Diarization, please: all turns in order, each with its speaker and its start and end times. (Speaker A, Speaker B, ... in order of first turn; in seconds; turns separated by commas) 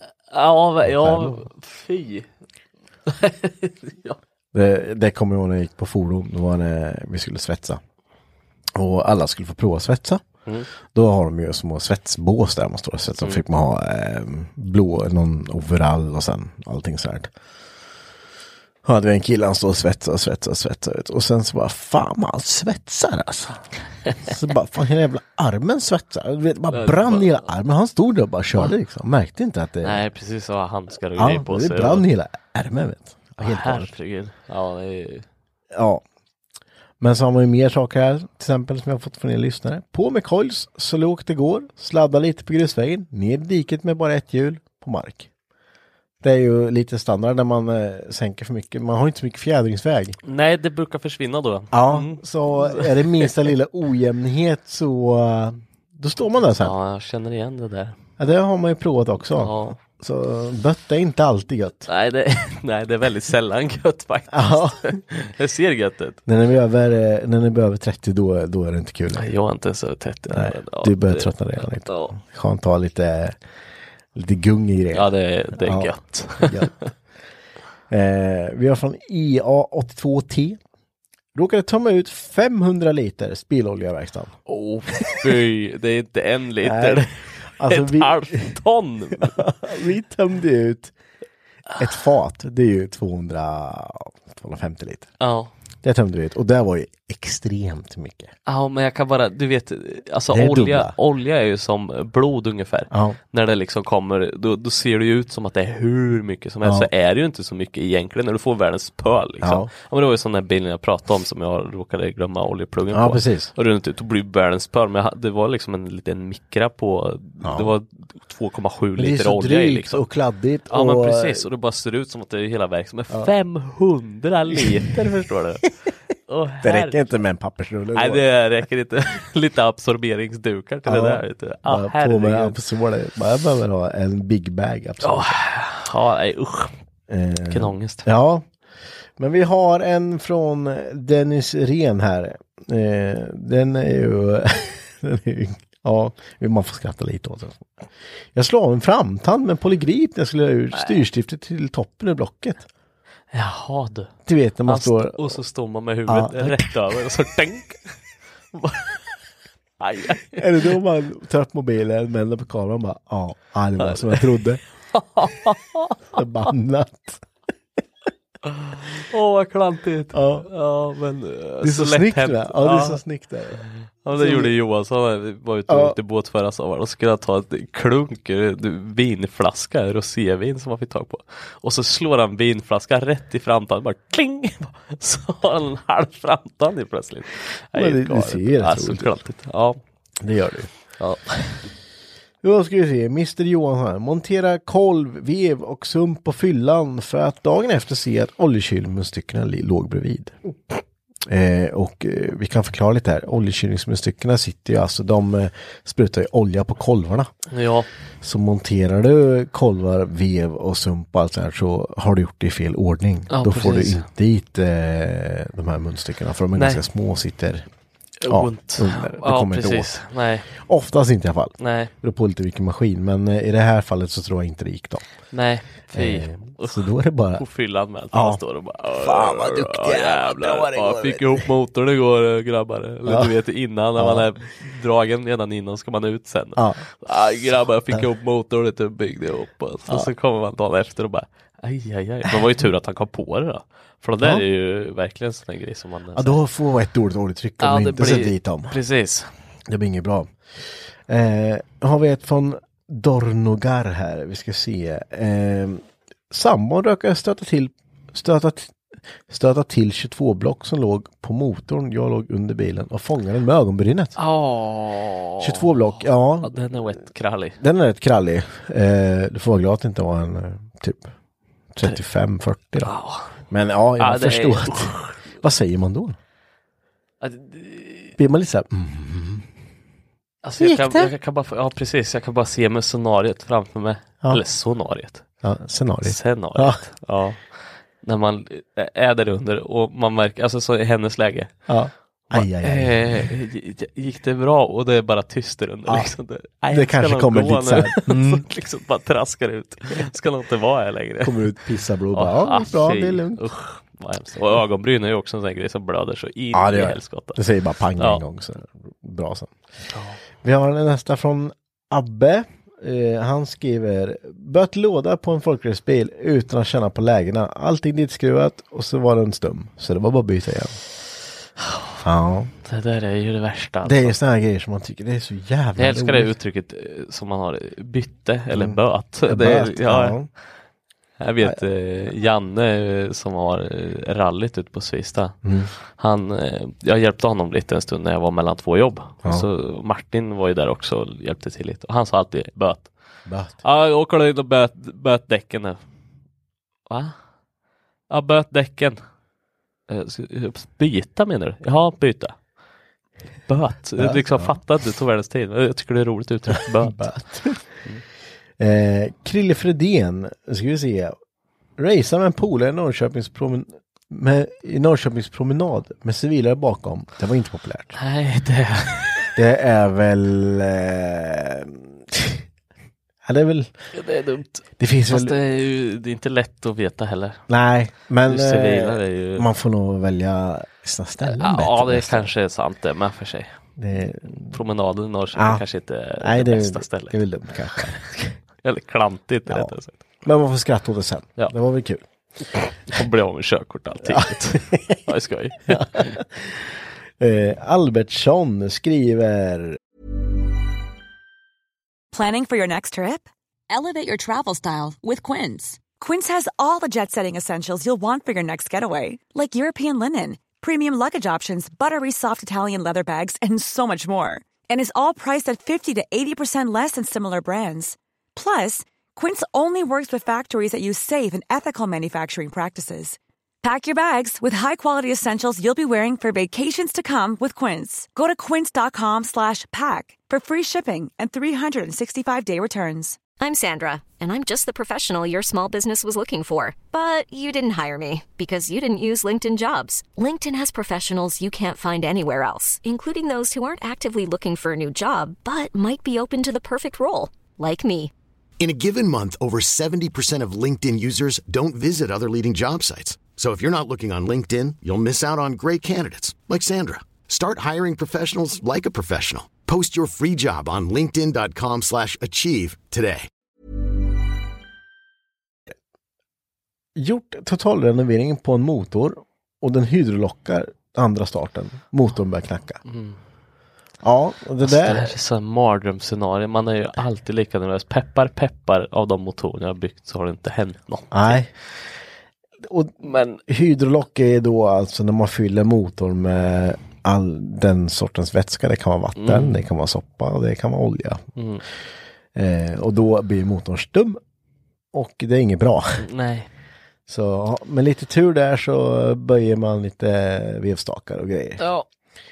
Speaker A: 0.3-2.3, Speaker B: 0.8-1.4, Speaker A: 3.1-4.2, Speaker B: 4.5-7.8, Speaker B: 8.7-10.2, Speaker B: 10.9-17.3, Speaker B: 18.8-23.6, Speaker B: 24.2-30.0, Speaker A: 26.7-27.4, Speaker A: 29.8-32.1, Speaker B: 31.1-33.9, Speaker A: 33.4-35.2, Speaker B: 35.7-36.0, Speaker B: 37.0-45.3, Speaker B: 46.2-50.2, Speaker A: 50.2-53.5, Speaker B: 51.7-56.7, Speaker A: 56.6-58.0, Speaker B: 58.2-61.9, Speaker A: 59.4-59.8, Speaker A: 61.9-66.2, Speaker B: 64.3-65.0, Speaker B: 66.2-69.3, Speaker A: 69.1-72.2, Speaker B: 70.3-73.4, Speaker B: 74.1-76.7, Speaker A: 74.9-76.7, Speaker B: 77.9-80.6, Speaker B: 81.3-84.4, Speaker A: 84.5-87.1, Speaker B: 85.0-85.3, Speaker B: 86.6-88.6, Speaker A: 87.6-89.5, Speaker B: 89.1-90.9, Speaker B: 91.8-95.1, Speaker A: 95.2-95.5, Speaker B: 95.8-98.3, Speaker A: 98.5-120.0, Speaker B: 100.3-100.9, Speaker B: 102.9-103.2, Speaker B: 106.6-106.9, Speaker B: 109.4-109.7, Speaker B: 112.9-113.5, Speaker B: 117.4-117.7, Speaker B: 119.0-121.4, Speaker A: 120.7-125.7, Speaker A: 126.3-127.2, Speaker B: 126.6-128.2, Speaker A: 127.9-132.6, Speaker B: 130.8-135.4, Speaker A: 135.0-136.7, Speaker B: 137.1-138.4, Speaker A: 137.5-138.1, Speaker B: 139.2-147.7, Speaker B: 148.3-152.7, Speaker A: 153.3-154.1, Speaker B: 154.2-155.4, Speaker A: 154.7-157.9, Speaker B: 156.1-156.7, Speaker A: 158.5-159.1, Speaker A: 159.8-160.7, Speaker B: 160.3-164.6, Speaker A: 163.8-166.2, Speaker B: 166.1-167.2, Speaker A: 168.5-173.0, Speaker B: 170.1-170.5, Speaker B: 171.6-174.5, Speaker A: 173.6-189.8, Speaker B: 175.7-176.0, Speaker B: 187.7-189.2, Speaker B: 190.2-190.7, Speaker A: 191.0-191.7, Speaker B: 192.4-200.3, Speaker B: 201.3-207.3, Speaker A: 207.5-207.9, Speaker B: 208.2-217.7, Speaker A: 213.3-214.1, Speaker A: 216.6-216.8, Speaker A: 218.2-220.5, Speaker B: 218.3-220.0, Speaker B: 220.5-225.0, Speaker A: 221.6-221.9, Speaker A: 225.3-246.4, Speaker B: 225.9-227.4, Speaker B: 228.1-231.4, Speaker B: 233.1-233.3, Speaker B: 233.9-234.3, Speaker B: 236.6-236.8, Speaker B: 246.1-248.8, Speaker A: 247.6-249.3, Speaker B: 249.7-264.2, Speaker A: 264.2-267.6, Speaker B: 265.4-266.6, Speaker B: 267.6-271.1, Speaker B: 271.7-272.9, Speaker A: 272.8-273.3, Speaker B: 273.5-276.2, Speaker A: 274.0-275.3, Speaker A: 277.2-278.2, Speaker B: 278.2-279.4, Speaker A: 280.4-285.2, Speaker B: 280.6-281.1, Speaker B: 285.4-286.8, Speaker A: 286.0-291.5, Speaker B: 291.7-293.3, Speaker A: 292.3-301.4, Speaker B: 296.7-298.4, Speaker B: 301.2-303.5, Speaker A: 302.1-307.4, Speaker B: 306.5-309.5, Speaker A: 309.9-310.2, Speaker B: 310.4-320.8, Speaker B: 322.0-322.5, Speaker A: 322.6-324.2, Speaker B: 323.8-326.3, Speaker A: 325.8-330.1, Speaker B: 328.5-330.3, Speaker A: 331.2-335.4, Speaker B: 335.4-335.7, Speaker A: 335.9-342.9, Speaker B: 343.2-343.6, Speaker A: 343.6-345.8, Speaker A: 346.9-347.1, Speaker A: 348.1-349.0, Speaker A: 349.9-352.4, Speaker A: 353.5-357.0, Speaker B: 354.0-354.6, Speaker B: 356.5-357.6, Speaker B: 358.6-361.1, Speaker B: 361.8-368.0, Speaker A: 367.9-369.4, Speaker B: 369.3-372.4, Speaker B: 373.2-373.7, Speaker A: 373.9-377.4, Speaker B: 374.8-375.4, Speaker B: 377.5-382.3, Speaker A: 378.2-379.4, Speaker A: 381.2-383.5, Speaker B: 383.8-384.6, Speaker A: 384.3-387.1, Speaker B: 385.3-385.6, Speaker B: 386.2-388.4, Speaker A: 388.6-390.0, Speaker B: 389.5-392.0, Speaker A: 392.9-396.2, Speaker B: 394.0-395.0, Speaker B: 395.7-399.8, Speaker C: 402.1-433.2, Speaker D: 433.4-448.1, Speaker E: 448.6-463.3, Speaker B: 466.9-472.8, Speaker A: 472.9-473.2, Speaker B: 474.0-475.1, Speaker A: 474.6-481.4, Speaker B: 481.1-481.5, Speaker B: 482.6-491.2, Speaker A: 483.0-483.4, Speaker A: 489.2-489.6, Speaker A: 491.4-491.6, Speaker B: 492.3-494.2, Speaker B: 494.9-496.1, Speaker A: 496.0-496.5, Speaker B: 497.1-501.6, Speaker A: 501.6-501.8